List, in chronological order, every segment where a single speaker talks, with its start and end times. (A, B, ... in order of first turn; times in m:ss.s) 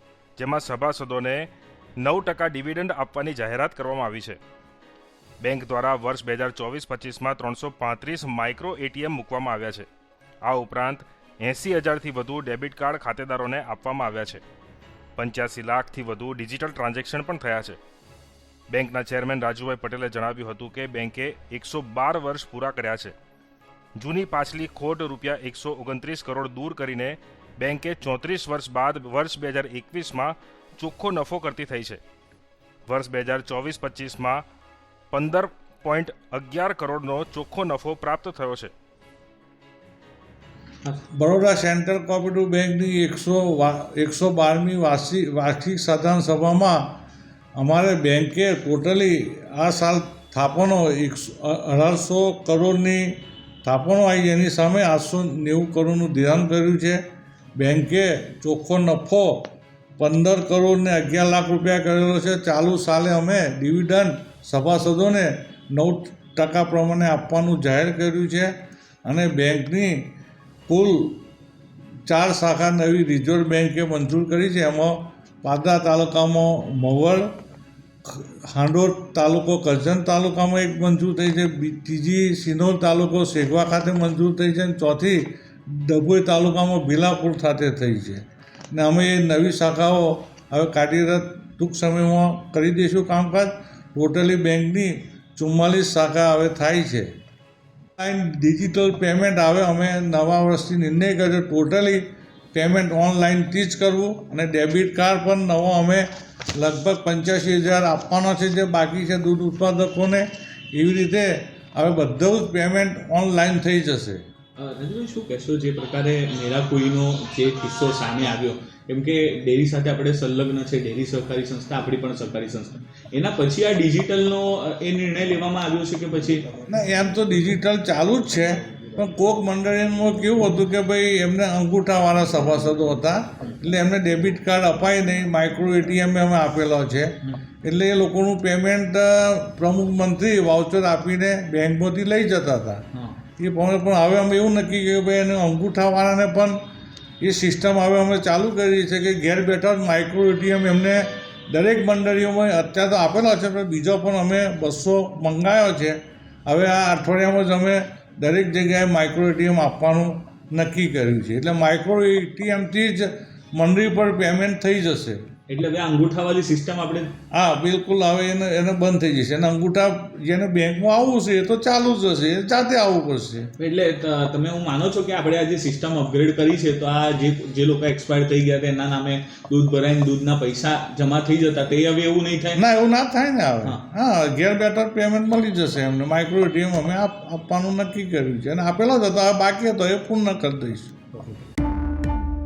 0:00.4-0:04.4 A
0:05.4-0:09.9 A
0:10.4-0:14.4 A
0:15.2-0:17.8 A
0:18.7-0:23.1 A
0:24.0-0:32.0 A
0:32.9-0:34.4 A
0:35.1-0:38.7 A
0:41.1-0:46.9 B
0:47.6-0:57.0 B
0:57.6-1:08.5 B
1:09.0-1:10.1 B
1:10.7-1:11.2 B
1:12.1-1:17.3 B
1:18.0-1:37.1 B
1:38.0-1:46.0 B
1:46.6-1:54.2 B
1:54.6-2:06.4 C
2:06.7-2:22.8 B
2:23.4-2:26.6 B
2:27.2-2:45.2 B
2:45.5-2:47.1 C
2:47.3-2:53.5 B
2:53.6-3:02.6 C
3:02.5-3:11.4 B